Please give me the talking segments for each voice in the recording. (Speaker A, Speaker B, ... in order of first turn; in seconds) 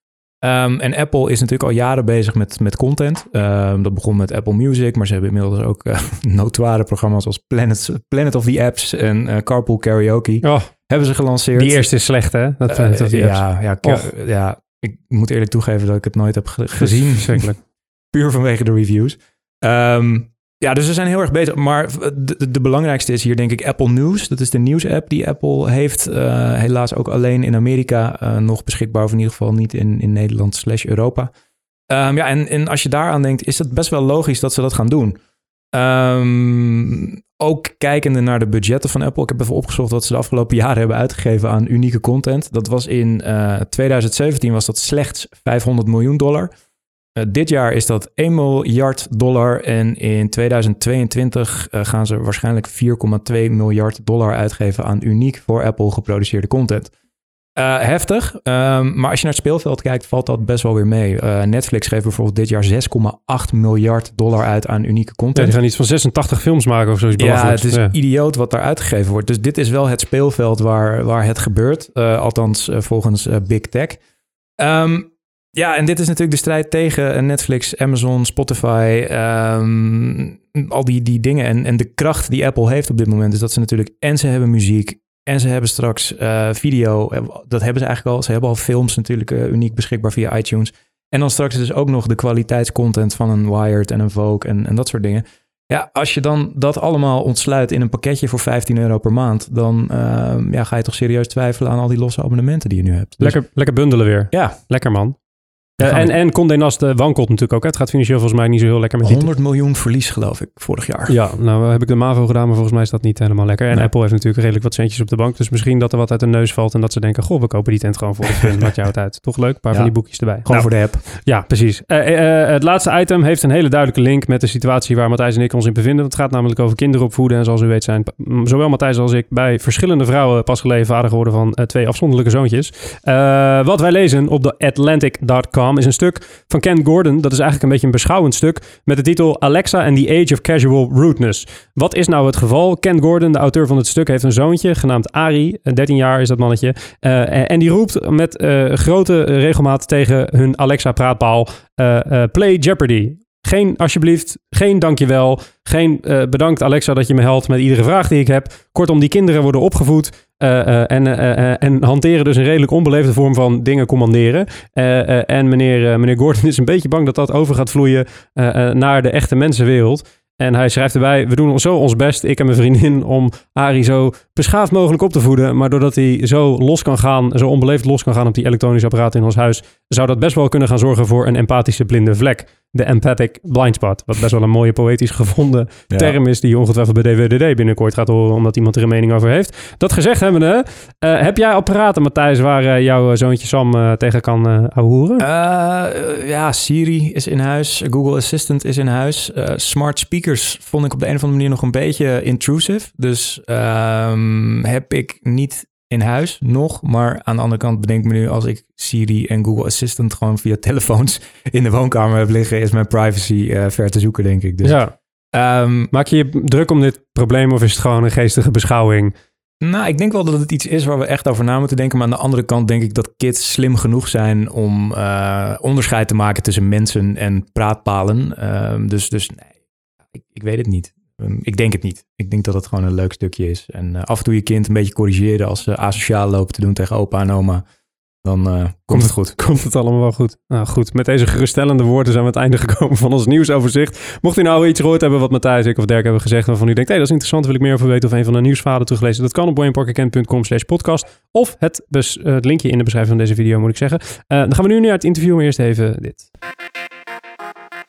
Speaker A: 0.4-12.0, 12.7-31.3, 31.9-35.2, 35.7-46.5, 47.2-56.9, 57.6-65.5, 67.2-74.0, 74.6-103.5, 104.3-104.6, 105.8-106.2, 109.0-111.2, 119.7-121.1, 185.9-186.2, 195.2-214.8, 215.3-215.9, 219.6-229.5, 230.2-237.7, 238.2-239.4
Speaker B: 10.4-10.7, 11.5-14.1, 16.8-17.6, 65.3-67.9, 103.2-105.2, 105.8-109.3, 111.1-195.3, 214.6-214.9, 215.9-219.1, 238.9-256.3